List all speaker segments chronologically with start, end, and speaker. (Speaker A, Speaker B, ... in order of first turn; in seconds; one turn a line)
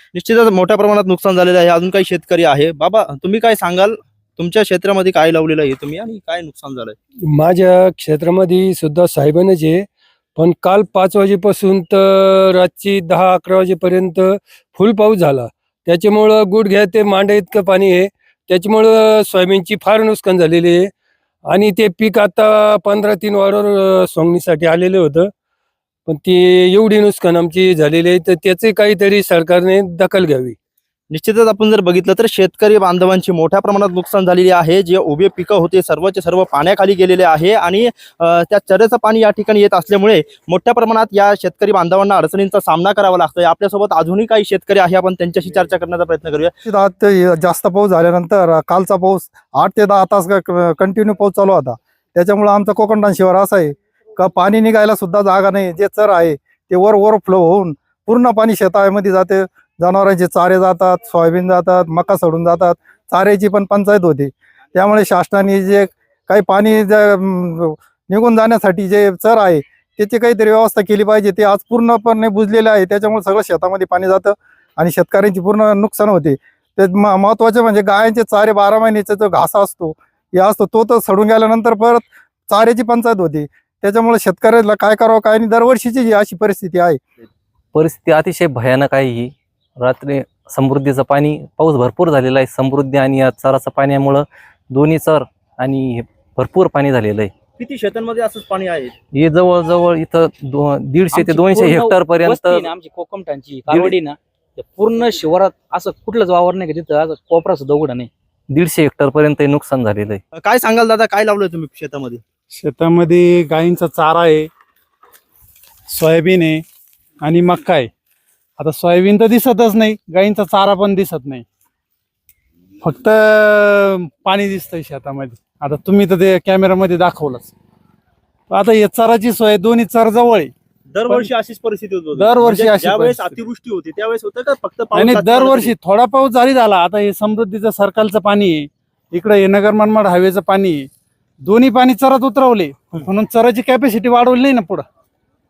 Speaker A: 0.1-7.0
Speaker B: 7.3-20.9
Speaker B: 21.5-25.3
Speaker B: 26.1-30.6
Speaker A: 31.1-46.5
Speaker C: 46.7-87.0
Speaker D: 87.7-97.3
Speaker A: 97.6-98.9
Speaker D: 99.1-102.7
Speaker E: 101.1-108.1
Speaker D: 108.5-110.2
Speaker A: 110.4-112.2
Speaker F: 112.5-114.5
Speaker F: 115.9-116.6
Speaker F: 117.2-117.9
Speaker F: 118.6-121.5
Speaker F: 122.8-127.5
Speaker F: 128.5-130.5
Speaker A: 130.9-135.7
Speaker F: 132.2-133.4
Speaker F: 134.9-140.9
Speaker F: 141.4-144.8